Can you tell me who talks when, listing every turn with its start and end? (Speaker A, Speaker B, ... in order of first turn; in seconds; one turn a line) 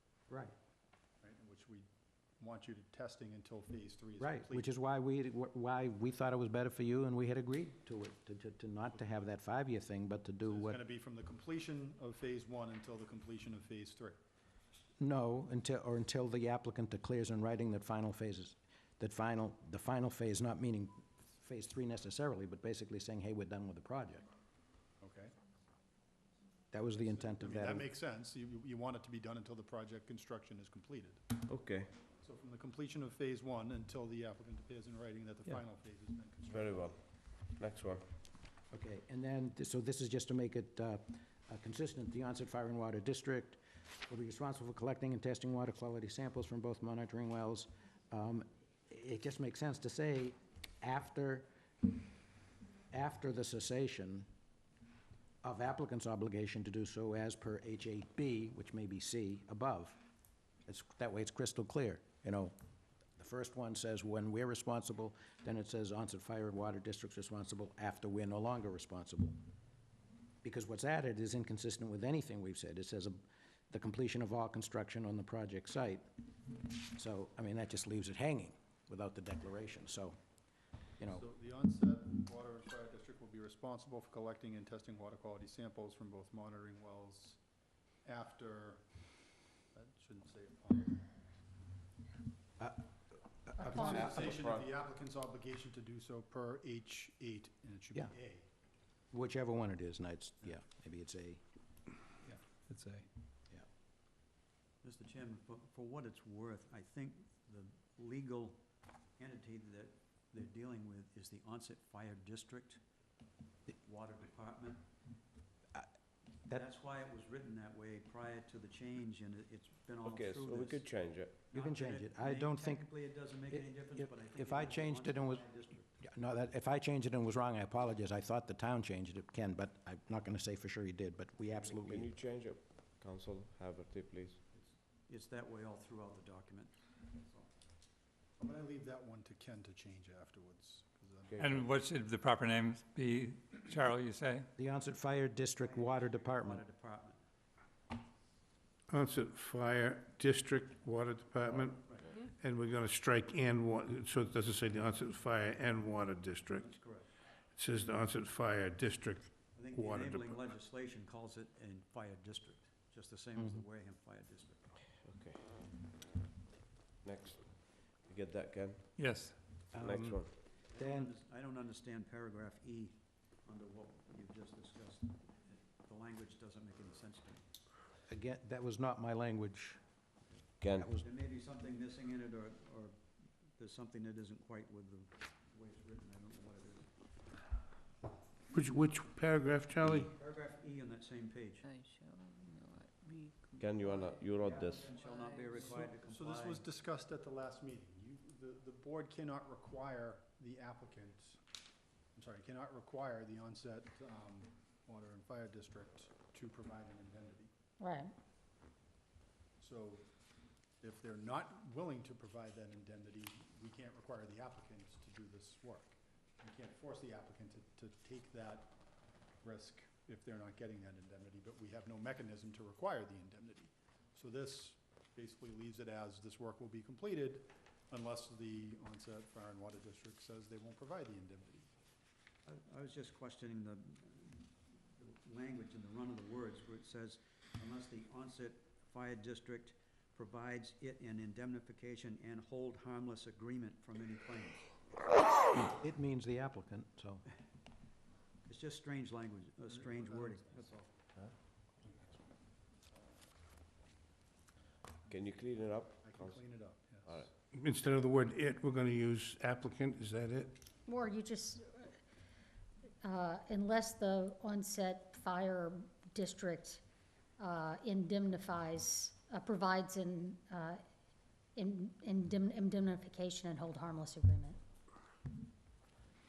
Speaker A: 1.2-1.9
Speaker A: 2.4-4.7
Speaker B: 4.2-10.8
Speaker A: 10.4-14.2
Speaker B: 15.0-24.2
Speaker A: 25.0-25.3
Speaker B: 26.7-27.9
Speaker A: 27.1-31.2
Speaker C: 31.5-31.9
Speaker A: 32.2-36.9
Speaker C: 36.4-38.0
Speaker B: 38.7-51.5
Speaker B: 52.9-54.2
Speaker B: 55.4-60.0
Speaker B: 60.6-62.5
Speaker B: 63.2-69.3
Speaker B: 70.4-76.0
Speaker B: 76.9-80.2
Speaker A: 81.0-87.4
Speaker A: 88.0-88.8
Speaker A: 89.7-91.0
Speaker B: 93.5-93.8
Speaker D: 93.6-94.4
Speaker A: 93.6-98.5
Speaker C: 93.8-94.7
Speaker B: 99.1-101.4
Speaker E: 104.8-108.6
Speaker E: 109.2-112.8
Speaker E: 113.8-114.8
Speaker E: 116.5-120.9
Speaker C: 120.0-121.4
Speaker E: 121.5-126.0
Speaker B: 121.5-125.5
Speaker B: 126.0-132.1
Speaker C: 131.5-134.4
Speaker E: 134.5-137.5
Speaker A: 138.4-141.8
Speaker F: 141.4-144.5
Speaker B: 144.6-146.6
Speaker E: 145.6-147.2
Speaker G: 148.9-156.7
Speaker E: 151.5-152.2
Speaker E: 156.5-157.1
Speaker G: 157.6-160.4
Speaker E: 159.5-164.8
Speaker B: 163.3-163.6
Speaker C: 165.0-165.7
Speaker C: 167.0-168.9
Speaker F: 169.0-169.4
Speaker C: 169.7-170.3
Speaker B: 169.7-171.1
Speaker E: 170.7-177.5
Speaker B: 178.1-179.8
Speaker C: 180.6-181.0
Speaker B: 180.7-181.0
Speaker E: 181.0-186.9
Speaker G: 188.5-190.1
Speaker E: 190.0-191.7
Speaker H: 191.6-194.2
Speaker C: 193.6-194.9
Speaker E: 194.4-196.6
Speaker H: 194.9-196.0
Speaker A: 195.9-201.4
Speaker A: 202.1-207.5
Speaker D: 207.8-208.1
Speaker A: 209.6-210.0
Speaker A: 210.8-218.8
Speaker A: 219.4-231.7
Speaker E: 232.4-244.7
Speaker B: 245.6-247.2
Speaker E: 248.4-250.7
Speaker A: 249.7-251.1
Speaker C: 255.1-256.4
Speaker A: 256.0-257.1
Speaker C: 257.0-257.3
Speaker G: 257.5-260.5
Speaker D: 260.9-262.0
Speaker D: 263.0-266.8
Speaker D: 267.4-270.8
Speaker D: 271.6-274.6